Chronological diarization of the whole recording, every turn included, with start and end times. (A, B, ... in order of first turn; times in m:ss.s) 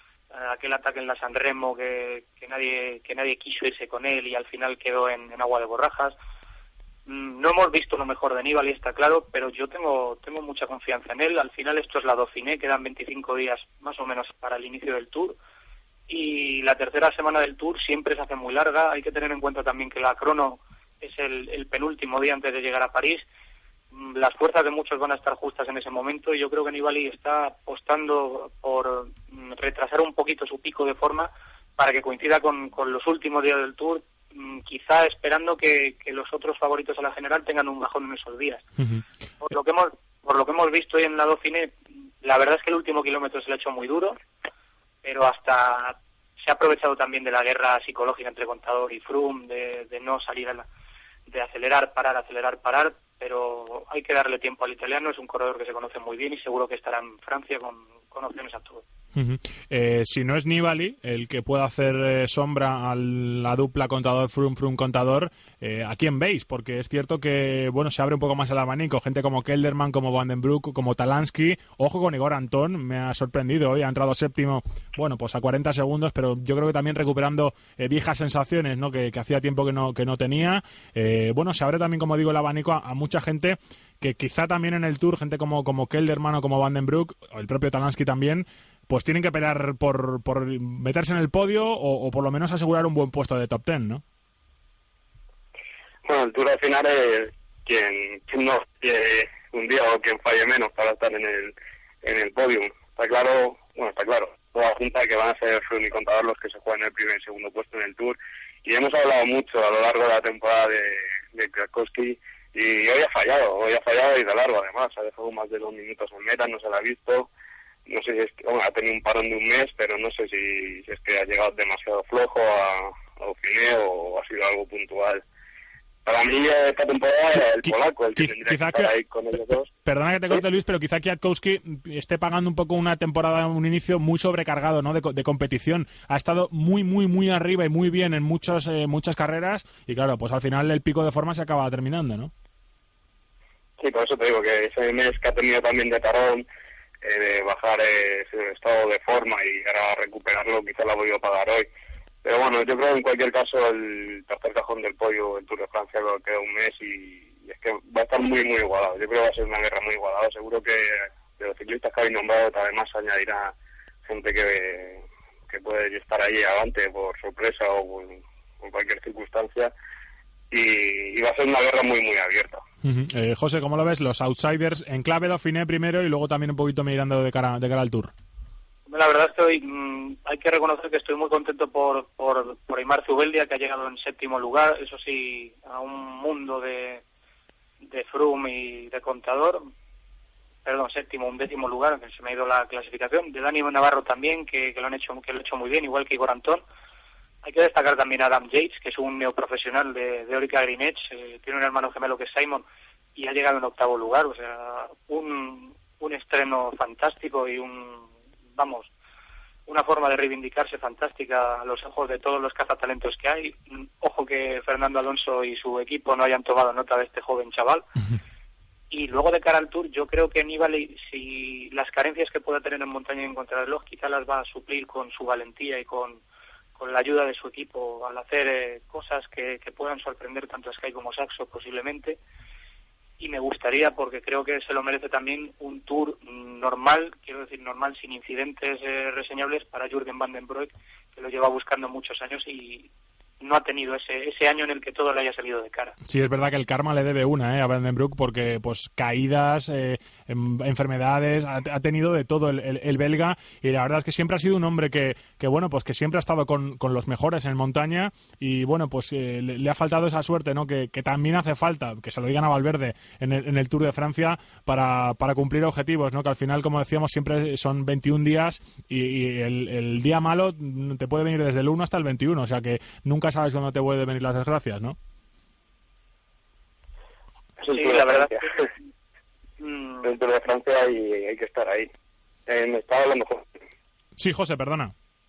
0:00.3-0:06.1 A
0:07.0-0:15.4 A
0:16.1-0:23.2 A
0:23.9-0:38.6 A
0:38.8-0:39.0 B
0:39.4-0:44.2 A
0:45.0-0:50.6 A
0:51.3-0:58.8 A
0:59.1-1:34.0 B
1:36.0-1:57.3 C
1:57.9-2:05.2 C
2:06.0-2:09.7 C
2:08.2-2:08.9 B
2:09.8-2:22.3 B
2:23.8-2:26.4 C
2:27.0-2:31.7 C
2:32.2-2:43.5 C
2:44.0-2:49.7 C
2:50.5-2:52.6 C
2:52.8-2:58.1 B
2:58.9-3:07.0 A
3:07.9-3:09.7 A
3:10.6-3:16.6 A
3:17.4-3:22.6 A
3:23.2-3:28.9 A
3:29.7-3:37.8 A
3:38.9-3:46.2 A
3:46.8-3:52.2 A
3:53.2-4:02.9 A
4:03.4-4:05.9 A
4:06.0-4:35.0 B
4:37.6-4:38.7 C
4:37.7-4:38.3 A
4:39.6-4:40.1 A
4:40.0-4:41.9 C
4:42.5-4:43.5 C
4:44.2-4:44.9 B